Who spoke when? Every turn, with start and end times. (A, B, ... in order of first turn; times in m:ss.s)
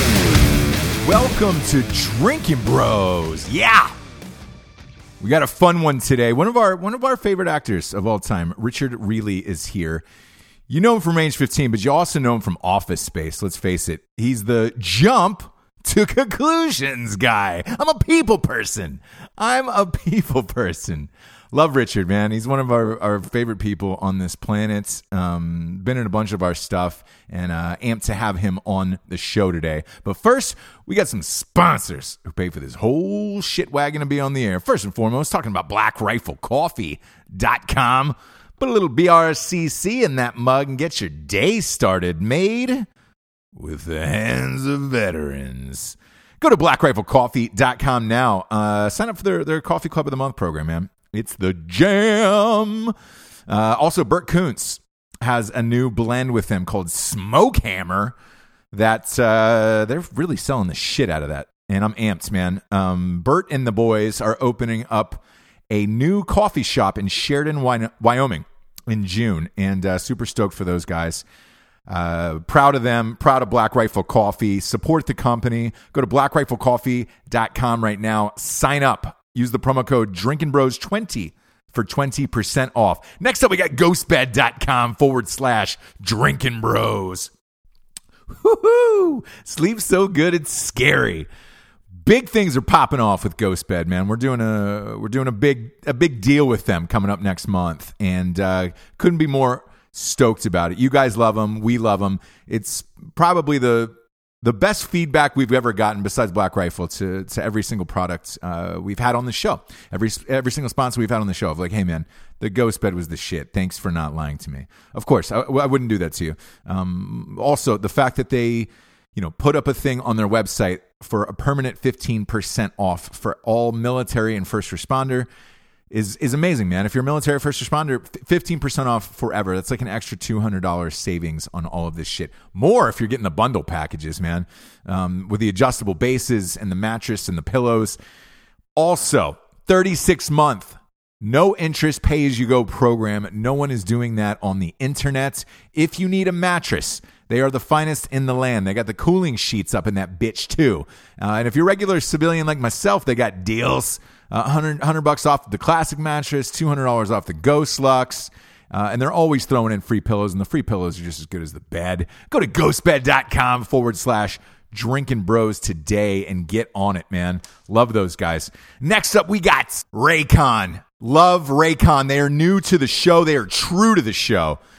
0:01.0-0:03.9 A
0:05.2-0:10.0 A
0:10.7-0:42.9 A
0:43.6-0:52.9 A
0:53.5-0:58.1 A
0:58.7-1:11.2 A
1:11.9-1:27.3 A
1:28.3-1:31.3 A
1:32.0-2:05.3 A
2:05.9-2:18.0 A
2:18.8-2:54.6 A